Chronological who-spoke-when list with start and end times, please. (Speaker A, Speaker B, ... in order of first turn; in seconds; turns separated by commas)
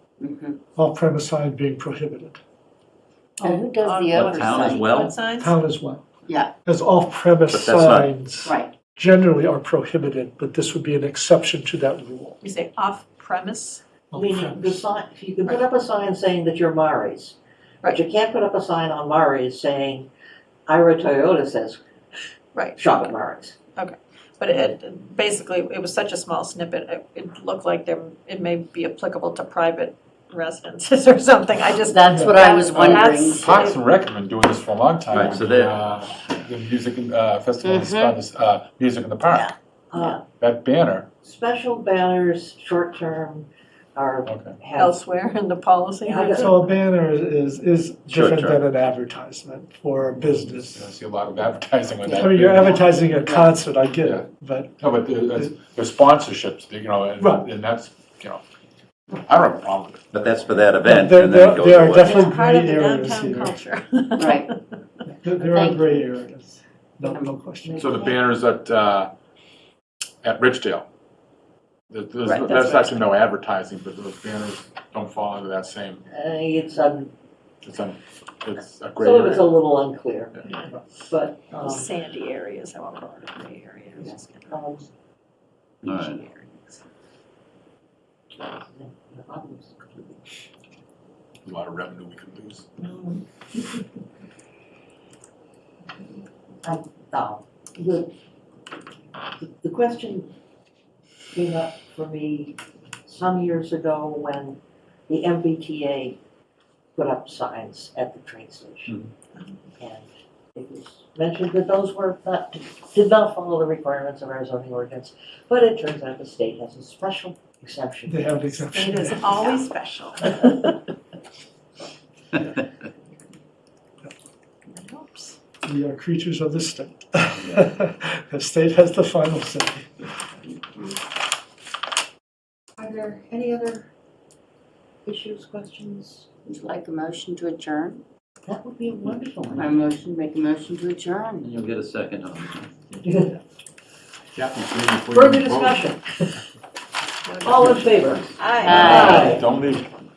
Speaker A: 0.2-0.6, Speaker B: 0.8-2.4, Speaker C: 3.4-5.6, Speaker A: 3.4-4.8, Speaker D: 4.1-5.2, Speaker B: 5.4-6.0, Speaker A: 6.3-6.5, Speaker B: 6.6-12.4, Speaker D: 7.5-8.1, Speaker A: 8.4-8.7, Speaker C: 12.4-13.8, Speaker B: 14.1-14.8, Speaker E: 14.1-17.4, Speaker E: 17.9-20.1, Speaker E: 20.7-21.8, Speaker C: 22.5-23.1, Speaker E: 22.8-23.6, Speaker C: 23.8-33.8, Speaker A: 31.8-33.4, Speaker F: 33.0-39.5, Speaker D: 35.1-35.9, Speaker A: 37.6-38.2, Speaker E: 39.9-40.2, Speaker F: 40.3-41.1, Speaker E: 41.2-45.0, Speaker F: 44.2-44.5, Speaker C: 44.8-46.5, Speaker E: 46.0-46.7, Speaker B: 46.4-50.9, Speaker D: 48.1-48.6, Speaker F: 50.2-52.9, Speaker A: 52.0-53.5, Speaker B: 52.1-55.5, Speaker F: 54.8-58.4, Speaker B: 57.2-57.5, Speaker F: 59.1-60.5, Speaker D: 60.1-62.2, Speaker B: 60.8-63.6, Speaker C: 62.0-64.5, Speaker A: 64.2-64.5, Speaker B: 65.0-68.1, Speaker A: 65.4-66.0, Speaker A: 67.0-67.3, Speaker E: 67.6-68.2, Speaker F: 67.8-69.1, Speaker F: 70.2-70.8, Speaker F: 71.9-76.0, Speaker C: 72.3-73.0, Speaker E: 76.1-77.1, Speaker F: 77.6-79.6, Speaker E: 79.0-81.9, Speaker C: 80.5-80.7, Speaker C: 81.6-84.8, Speaker E: 84.0-84.8, Speaker D: 85.8-86.2, Speaker C: 85.8-86.8, Speaker E: 88.3-90.5, Speaker F: 91.4-92.7, Speaker E: 92.8-93.2, Speaker E: 96.6-98.1, Speaker E: 99.4-100.3, Speaker E: 101.3-106.2, Speaker E: 106.9-109.0, Speaker E: 109.8-118.6, Speaker B: 118.1-119.4, Speaker C: 118.7-120.7, Speaker C: 124.7-125.4, Speaker B: 125.6-129.9, Speaker E: 132.8-133.9, Speaker E: 135.0-136.3, Speaker A: 136.4-138.0, Speaker E: 138.5-139.9, Speaker A: 139.5-141.5, Speaker D: 141.4-142.7, Speaker E: 143.0-143.4, Speaker F: 144.3-145.9, Speaker E: 145.1-146.4, Speaker C: 147.3-147.9, Speaker E: 147.4-149.5, Speaker C: 148.4-149.4, Speaker A: 148.6-149.4, Speaker D: 148.8-149.1, Speaker F: 149.0-149.9